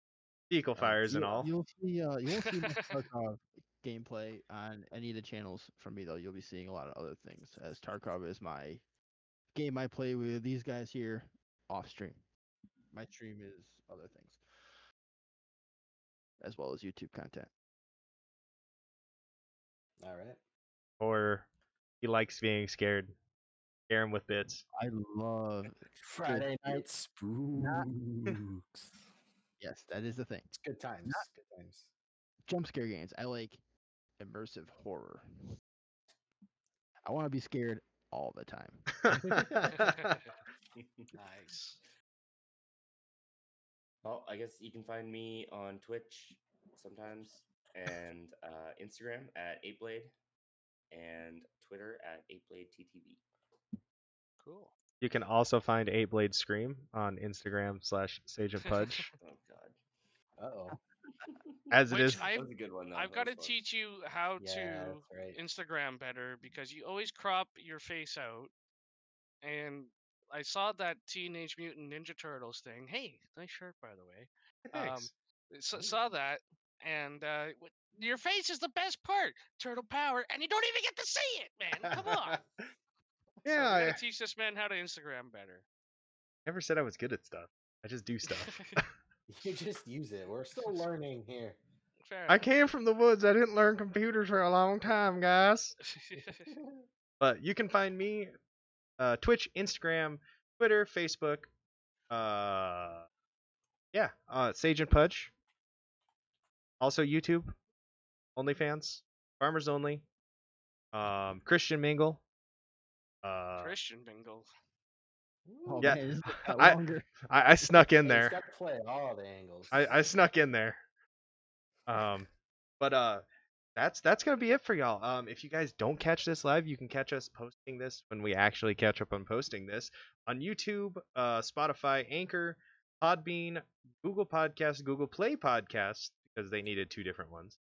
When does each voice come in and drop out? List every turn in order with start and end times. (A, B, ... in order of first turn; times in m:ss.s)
0:00.5-0:01.5 A
0:00.8-0:08.8 B
0:09.5-0:12.2 B
0:12.9-0:14.8 B
0:16.4-0:17.5 B
0:20.0-0:20.4 C
0:21.0-0:21.5 A
0:22.0-0:23.1 A
0:23.9-0:24.6 A
0:24.7-0:27.9 B
0:26.0-0:27.0 C
0:27.6-0:29.0 C
0:29.6-0:30.5 B
0:30.5-0:31.9 C
0:32.5-0:33.6 B
0:34.2-0:35.2 B
0:37.0-0:39.1 B
0:39.1-0:40.1 A
0:39.3-0:39.7 C
0:39.8-0:40.3 D
0:40.8-0:41.1 E
0:41.1-0:41.8 D
0:44.0-0:50.1 E
0:50.9-0:53.2 E
0:54.4-0:54.7 D
0:55.0-0:59.1 A
0:58.7-0:59.1 D
0:59.2-0:59.8 E
1:00.4-1:00.8 C
1:01.2-1:03.6 E
1:01.7-1:02.3 A
1:01.9-1:08.5 D
1:04.4-1:05.4 C
1:09.4-1:22.4 D
1:14.7-1:15.1 A
1:15.7-1:16.0 C
1:23.4-1:24.0 A
1:23.5-1:25.7 D
1:26.5-1:28.9 A
1:28.3-1:28.8 D
1:29.3-1:31.6 C
1:32.0-1:32.5 D
1:32.3-1:35.8 A
1:35.8-1:36.5 D
1:36.1-1:36.9 C
1:37.2-1:38.3 A
1:39.0-1:41.5 A
1:42.1-1:43.1 A
1:43.9-1:45.3 A
1:46.8-1:47.5 A
1:48.4-1:50.0 A
1:50.9-1:52.2 A
1:53.2-1:53.7 A
1:53.6-1:54.5 D
1:55.5-1:56.0 C
1:55.6-1:57.1 B
1:55.8-1:58.4 A
1:58.0-2:00.0 C
1:59.7-2:00.8 A
2:01.9-2:02.3 A
2:02.8-2:03.2 A
2:03.8-2:17.6 A